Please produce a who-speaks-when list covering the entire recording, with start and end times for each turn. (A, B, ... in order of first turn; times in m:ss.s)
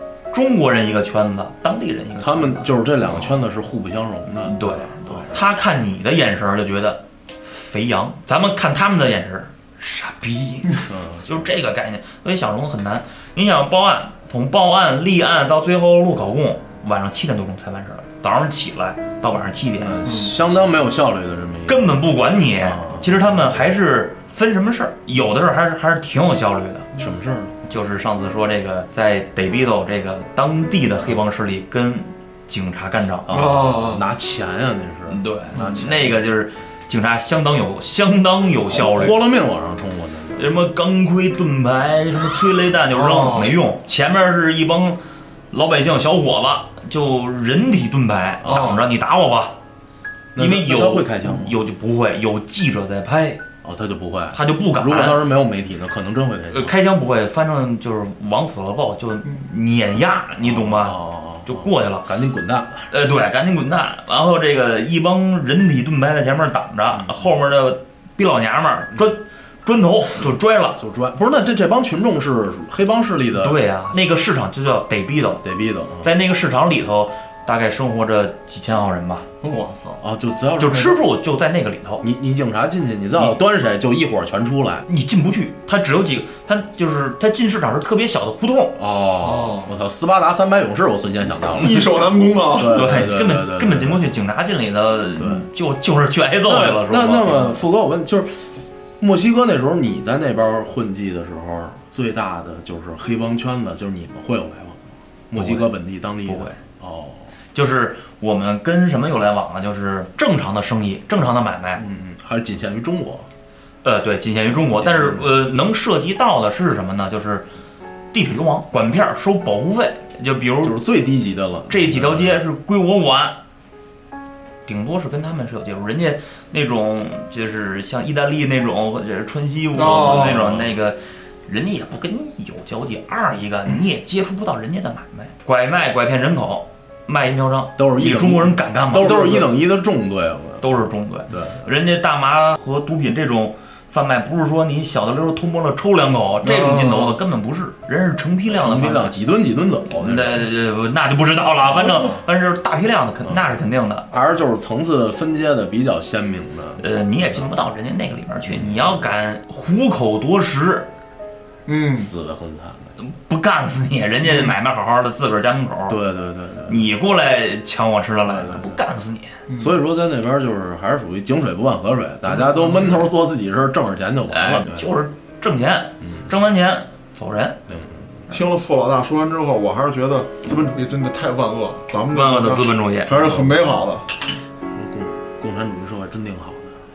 0:00.3-0:03.4 A
0:02.2-0:05.3 B
0:04.4-0:20.6 A
0:10.9-0:11.3 B
0:19.8-0:22.0 B
0:20.0-0:20.3 C
0:21.7-0:26.9 A
0:22.6-0:23.5 B
0:27.0-0:27.6 B
0:27.7-0:33.6 A
0:33.3-0:36.2 B
0:33.3-0:34.0 C
0:35.1-0:39.2 A
0:38.7-0:40.5 B
0:40.4-0:45.0 A
0:43.0-0:43.6 C
0:45.5-0:49.6 A
0:48.4-0:48.8 B
0:48.5-0:48.8 C
0:50.4-0:51.6 B
0:50.4-0:53.4 A
0:53.6-0:56.8 B
0:54.3-0:55.2 A
0:56.5-1:02.1 A
1:00.4-1:02.9 B
1:02.9-1:10.8 A
1:06.9-1:07.2 B
1:10.8-1:13.6 B
1:13.4-1:15.4 A
1:15.4-1:16.1 B
1:16.0-1:19.3 A
1:19.4-1:20.0 C
1:20.0-1:21.0 B
1:20.6-1:22.0 A
1:22.0-1:24.8 B
1:24.9-1:28.8 A
1:28.8-1:34.0 B
1:29.2-1:29.7 C
1:31.5-1:32.9 C
1:32.7-1:37.6 A
1:35.2-1:35.5 B
1:36.4-1:38.5 B
1:39.0-1:47.3 B
1:45.4-1:45.7 A
1:46.2-1:46.6 A
1:47.6-1:51.8 A
1:51.8-1:53.3 B
1:53.8-1:57.5 A
1:54.8-1:55.3 B
1:58.1-2:00.8 A
2:00.6-2:02.4 B
2:01.7-2:03.4 A
2:04.7-2:19.5 A
2:09.8-2:10.5 C
2:10.1-2:10.7 B
2:17.8-2:20.6 B
2:20.6-2:29.1 A
2:21.3-2:21.6 B
2:26.4-2:27.2 C
2:28.5-2:30.5 B
2:30.0-2:34.0 A
2:31.7-2:32.2 B
2:34.1-2:36.8 B
2:36.8-2:40.9 A
2:38.4-2:39.0 B
2:41.7-2:42.1 C
2:42.0-2:42.9 B
2:43.0-2:46.0 A
2:45.9-2:46.9 B
2:46.7-2:49.4 A
2:48.2-2:48.8 B
2:49.5-2:49.8 C
2:49.6-2:54.9 B
2:52.3-2:53.1 A
2:54.3-2:57.6 A
2:56.0-2:56.3 B
2:57.7-2:58.2 B
2:58.3-3:04.1 C
3:02.1-3:03.4 A
3:03.2-3:03.6 B
3:04.7-3:06.8 B